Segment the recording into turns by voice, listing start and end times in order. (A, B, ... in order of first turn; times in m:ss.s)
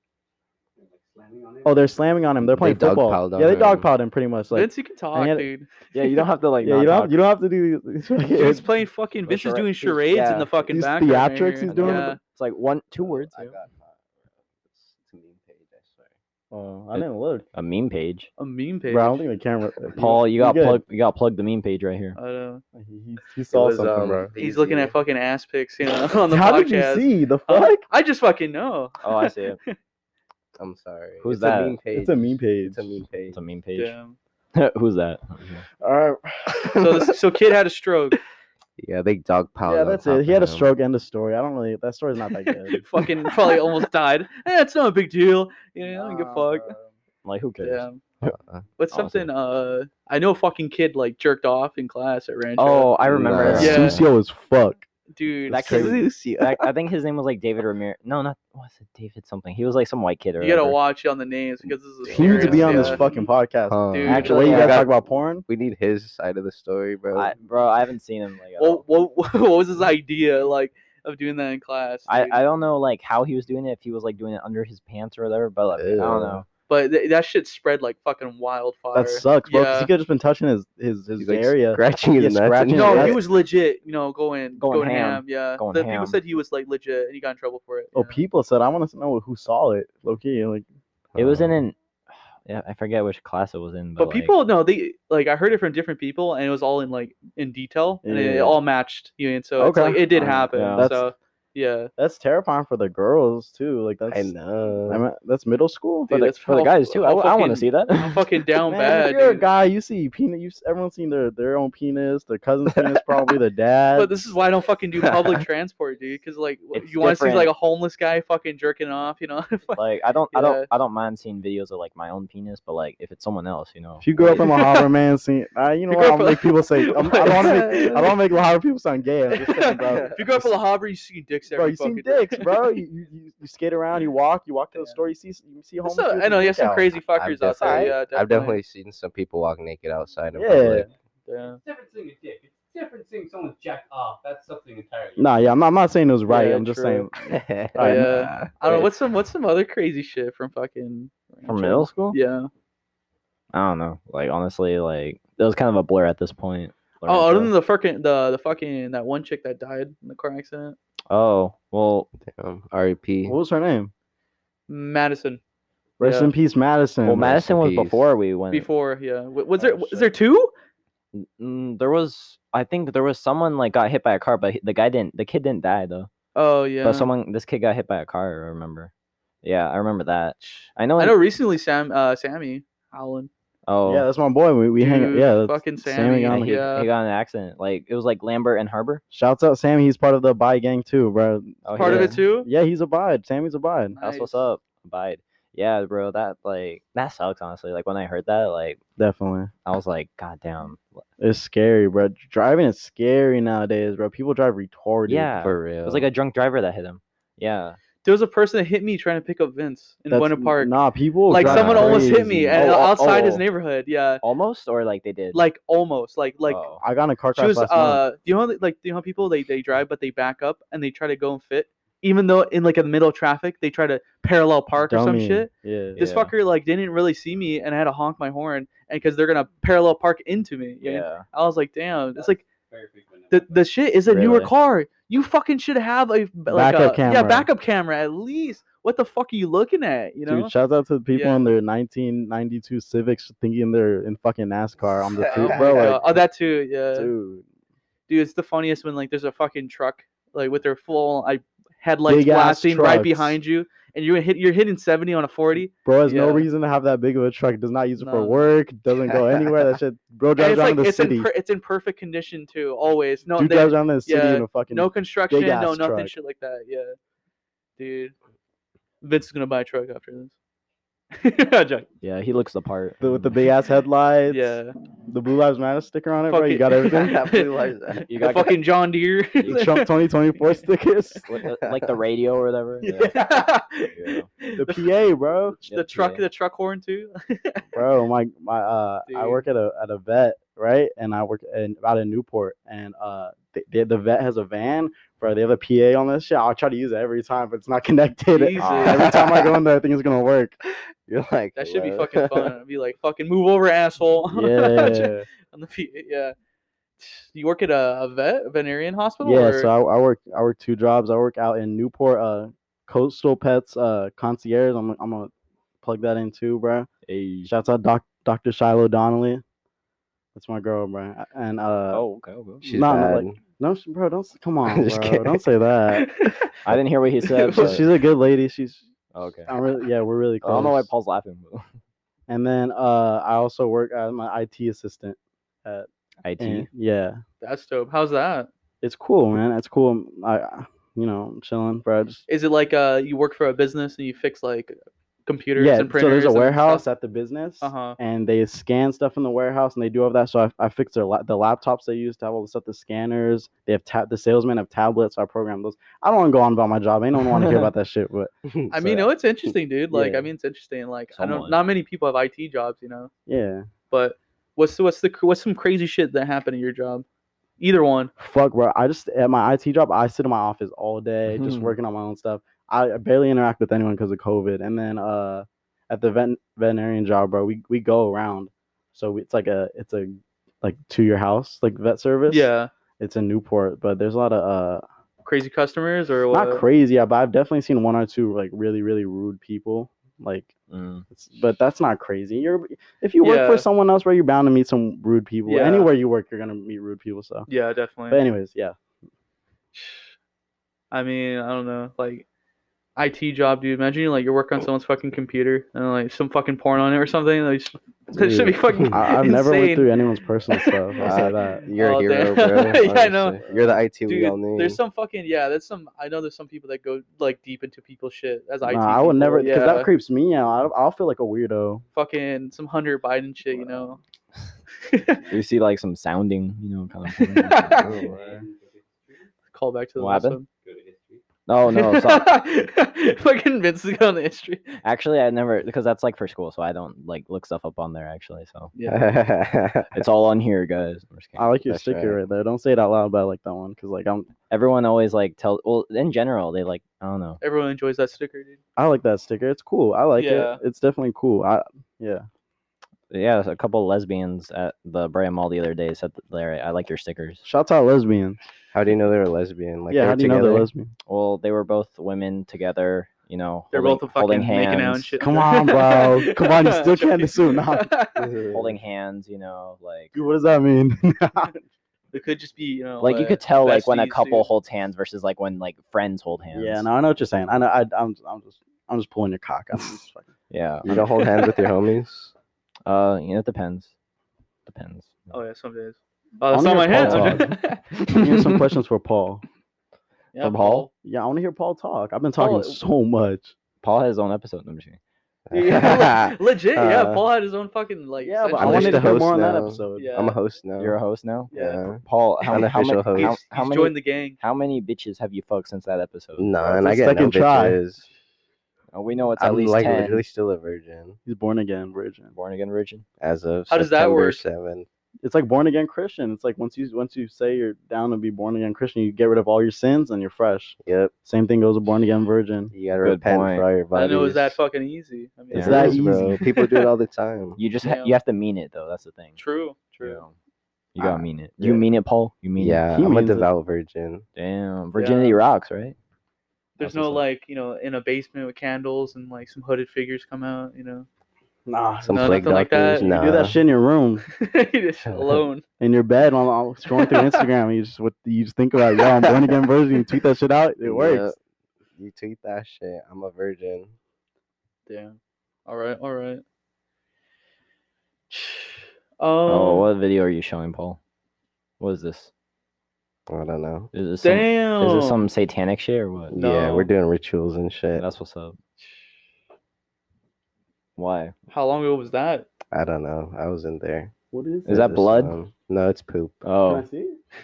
0:00.8-0:01.9 A
0:01.6-0:05.5 B
0:02.5-0:03.9 C
0:04.5-0:05.7 D
0:05.9-0:07.2 E
0:06.6-0:08.6 B
0:08.3-0:12.2 D
0:09.2-0:10.7 E
0:10.7-0:12.2 B
0:11.7-0:13.5 E
0:13.0-0:16.1 C
0:16.5-0:17.4 B
0:16.9-0:18.3 E
0:18.4-0:19.2 D
0:18.9-0:20.8 B
0:20.0-0:22.2 E
0:22.1-0:22.6 D
0:22.7-0:24.3 B
0:23.5-0:25.0 C
0:24.4-0:29.8 D
0:26.3-0:27.8 B
0:29.0-0:29.6 E
0:30.6-0:33.4 C
0:31.2-0:31.8 E
0:31.9-0:32.9 B
0:33.3-0:33.9 E
0:33.7-0:34.2 D
0:34.5-0:35.6 E
0:35.8-0:36.7 B
0:36.6-0:36.9 C
0:36.8-0:38.2 D
0:38.8-0:40.7 C
0:39.6-0:42.8 B
0:42.7-0:46.8 D
0:45.9-0:46.9 B
0:47.2-0:47.8 E
0:47.6-0:48.0 D
0:48.2-0:48.6 C
0:48.8-0:53.0 D
0:48.9-0:49.3 E
0:52.6-0:54.0 E
0:53.0-0:54.0 C
0:53.4-0:54.8 B
0:53.5-0:54.0 D
0:55.1-0:56.0 D
0:55.5-1:00.8 E
0:55.5-0:56.7 C
1:00.4-1:03.1 D
1:02.0-1:03.1 C
1:02.0-1:05.4 B
1:03.7-1:04.9 C
1:03.9-1:04.8 D
1:04.1-1:04.9 E
1:05.5-1:07.3 C
1:07.1-1:08.8 E
1:08.6-1:12.4 D
1:12.1-1:16.4 E
1:15.7-1:16.4 C
1:16.7-1:19.9 D
1:18.9-1:23.2 B
1:21.2-1:23.2 C
1:22.7-1:28.2 D
1:24.6-1:26.2 E
1:27.9-1:30.6 B
1:31.1-1:31.6 C
1:31.2-1:31.8 E
1:32.4-1:34.3 E
1:34.0-1:41.9 D
1:38.0-1:38.6 B
1:39.6-1:41.1 B
1:40.5-1:40.9 E
1:42.0-1:44.3 B
1:44.1-1:45.0 C
1:44.9-1:46.1 B
1:46.1-1:49.4 D
1:46.1-1:48.2 E
1:48.7-1:54.1 B
1:53.9-2:00.7 D
1:56.7-1:57.5 E
1:59.8-2:04.4 E
2:04.0-2:10.5 B
2:04.3-2:04.8 D
2:05.9-2:08.1 D
2:09.3-2:12.6 D
2:11.5-2:16.9 B
2:15.8-2:18.6 D
2:17.2-2:20.9 C
2:17.6-2:17.9 B
2:20.4-2:20.9 B
2:21.3-2:21.6 D
2:21.6-2:25.4 A
2:25.2-2:28.1 B
2:26.3-2:27.1 D
2:27.3-2:28.9 C
2:27.8-2:32.5 D
2:31.4-2:32.2 E
2:33.5-2:37.5 E
2:37.0-2:40.8 D
2:41.1-2:42.1 E
2:42.2-2:43.4 C
2:43.2-2:43.9 B
2:44.7-2:45.4 D
2:46.0-2:47.4 B
2:46.0-2:46.3 D
2:47.0-2:48.7 E
2:47.2-2:48.0 C
2:48.5-2:50.5 D
2:51.1-2:56.1 E
2:56.3-2:57.1 D
2:56.8-2:58.9 E
2:59.4-3:01.2 E
3:00.4-3:03.3 D
3:03.7-3:04.1 E
3:03.8-3:06.6 B
3:04.8-3:06.9 D
3:06.3-3:09.0 E
3:09.1-3:14.0 B
3:11.6-3:12.2 E
3:11.7-3:12.5 D
3:14.0-3:14.5 D
3:14.0-3:18.8 E
3:19.0-3:19.5 B
3:19.6-3:21.0 E
3:21.2-3:25.3 B
3:25.1-3:27.8 E
3:25.4-3:26.0 C
3:28.0-3:30.7 D
3:30.1-3:32.7 B
3:31.3-3:34.2 D
3:31.4-3:33.4 E
3:34.2-3:35.4 E
3:35.3-3:36.6 D
3:36.5-3:36.8 E
3:36.8-3:38.0 B
3:37.4-3:52.4 D
3:44.8-3:46.0 B
3:46.0-3:46.3 E
3:50.8-3:51.2 E
3:52.1-3:53.7 A
3:53.3-4:00.5 D
3:54.1-3:54.5 E
3:56.5-3:57.5 B
4:00.2-4:06.1 B
4:01.1-4:01.5 D
4:05.2-4:06.0 C
4:05.3-4:07.1 D
4:06.9-4:07.4 B
4:08.1-4:16.5 D
4:12.1-4:13.4 B
4:15.8-4:21.3 B
4:18.0-4:18.5 D
4:20.4-4:27.0 D
4:23.3-4:26.1 B
4:27.8-4:28.1 D
4:29.0-4:30.3 D
4:31.1-4:31.9 D
4:32.0-4:33.3 E
4:33.0-4:37.2 B
4:34.3-4:34.8 D
4:36.3-4:40.6 D
4:36.8-4:38.1 C
4:38.1-4:38.6 E
4:39.4-4:39.7 E
4:39.5-4:41.2 B
4:41.2-4:43.3 E
4:41.6-4:41.9 C
4:42.8-4:44.8 D
4:43.9-4:44.3 E
4:44.6-4:45.6 B
4:45.6-4:47.6 D
4:45.6-4:46.2 E
4:47.7-5:00.6 B
4:49.1-4:49.4 D
4:58.3-4:59.1 D
4:58.6-4:59.2 E
4:59.0-4:59.4 C
5:01.0-5:02.5 C
5:01.6-5:06.3 D
5:04.3-5:05.3 B
5:07.0-5:09.7 D
5:09.2-5:15.3 B
5:15.8-5:16.9 B
5:17.0-5:17.5 E
5:17.4-5:19.4 B
5:20.3-5:22.0 B
5:21.9-5:22.7 E
5:22.6-5:23.4 C
5:22.6-5:26.1 B
5:24.6-5:25.4 C
5:25.9-5:26.5 D
5:26.6-5:27.8 E
5:27.3-5:27.8 D
5:27.5-5:28.8 B
5:29.1-5:29.5 E
5:29.5-5:30.9 B
5:30.4-5:31.7 E
5:32.3-5:35.9 B
5:36.2-5:36.7 E
5:36.4-5:37.2 B
5:37.4-5:38.5 D
5:38.8-5:42.2 B
5:42.3-5:44.7 D
5:45.2-5:46.8 D
5:45.6-5:59.1 B
5:47.6-5:48.0 D
5:57.2-5:57.7 E
5:58.5-5:58.9 C
5:58.7-6:03.1 D
5:59.9-6:00.3 B
6:01.1-6:01.6 E
6:03.3-6:03.7 B
6:03.9-6:07.0 D
6:07.6-6:08.1 D
6:08.2-6:24.8 B
6:11.3-6:11.7 E
6:22.3-6:22.7 D
6:25.2-6:26.6 D
6:26.3-6:30.5 B
6:30.7-6:31.0 E
6:31.1-6:37.5 B
6:33.2-6:33.6 D
6:35.4-6:35.9 D
6:37.5-6:38.2 D
6:38.1-6:38.7 B
6:39.7-6:40.1 D
6:40.9-6:42.2 D
6:43.0-6:49.9 D
6:48.2-6:49.0 C
6:48.9-6:51.7 B
6:50.5-6:50.8 D
6:51.0-6:54.8 C
6:51.8-6:53.4 D
6:53.4-6:53.7 B
6:54.0-6:59.9 D
6:58.6-7:01.8 B
7:01.9-7:04.0 D
7:04.9-7:05.2 D
7:05.3-7:07.8 E
7:07.1-7:07.9 D
7:07.7-7:09.3 A
7:07.8-7:08.1 C
7:07.8-7:08.4 B
7:09.5-7:10.5 D
7:10.0-7:10.4 E
7:10.6-7:11.2 A
7:11.5-7:12.4 E
7:11.7-7:14.8 D
7:14.8-7:18.7 E
7:18.7-7:19.2 D
7:18.8-7:20.0 C
7:19.9-7:21.5 E
7:21.4-7:24.3 B
7:21.7-7:22.2 C
7:24.5-7:27.4 E
7:27.4-7:28.6 D
7:28.8-7:32.2 B
7:30.2-7:30.6 D
7:33.1-7:37.4 E
7:37.4-7:38.4 B
7:38.7-7:40.7 C
7:39.9-7:40.9 B
7:41.1-7:45.2 E
7:43.7-7:48.3 D
7:45.2-7:47.9 B
7:48.2-7:48.8 C
7:48.5-7:50.1 E
7:50.1-7:51.6 B
7:52.1-7:54.5 D
7:53.0-7:56.9 E
7:56.5-8:00.3 B
8:00.5-8:00.9 E
8:00.8-8:02.3 C
8:02.8-8:03.9 E
8:04.7-8:05.2 E
8:05.3-8:08.1 D
8:06.5-8:07.6 B
8:06.9-8:07.4 E
8:08.1-8:09.4 B
8:10.3-8:10.9 D
8:10.4-8:10.9 E
8:11.0-8:13.5 B
8:12.4-8:12.8 D
8:13.8-8:15.0 E
8:15.5-8:17.2 C
8:15.5-8:19.2 D
8:18.2-8:20.1 B
8:18.6-8:21.0 C
8:19.9-8:20.4 D
8:20.8-8:21.5 E
8:21.5-8:21.9 D
8:21.5-8:23.4 C
8:22.0-8:26.5 E
8:23.2-8:24.4 D
8:26.4-8:28.1 C
8:26.6-8:27.8 B
8:28.9-8:30.2 E
8:29.4-8:31.2 C
8:31.2-8:32.3 B
8:32.3-8:33.0 E
8:33.2-8:34.8 C
8:33.7-8:34.4 D
8:35.2-8:42.7 B
8:40.8-8:41.1 C
8:42.7-8:44.6 C
8:43.0-8:43.6 E
8:43.9-8:46.8 D
8:45.5-8:46.4 B
8:45.5-8:47.6 C
8:47.6-8:49.4 E
8:47.8-8:48.1 D
8:49.4-8:50.2 D
8:50.0-8:50.3 E
8:50.9-8:52.8 E
8:51.0-8:51.8 C
8:52.6-8:54.2 C
8:52.9-8:53.5 B
8:54.4-8:56.0 E
8:54.9-8:55.4 D
8:56.8-9:01.1 D
8:56.8-8:57.2 E
9:01.7-9:02.4 B
9:02.0-9:03.6 C
9:02.1-9:03.1 D
9:03.0-9:04.2 B
9:04.4-9:05.6 D
9:05.1-9:05.4 C
9:05.8-9:11.3 B
9:06.9-9:07.4 D
9:10.8-9:11.4 C
9:12.0-9:13.9 C
9:14.9-9:15.2 D
9:15.7-9:16.4 D
9:18.3-9:19.9 D
9:19.5-9:21.0 E
9:21.8-9:22.3 E
9:23.3-9:23.9 C
9:23.9-9:26.3 E
9:24.2-9:25.2 D
9:26.3-9:28.0 C
9:26.3-9:26.9 D
9:28.0-9:28.6 E
9:31.0-9:31.3 E
9:31.5-9:32.5 D
9:32.7-9:34.1 C
9:34.3-9:34.8 B
9:34.7-9:35.3 E
9:34.7-9:36.4 C
9:36.4-9:36.8 E
9:36.6-9:37.2 B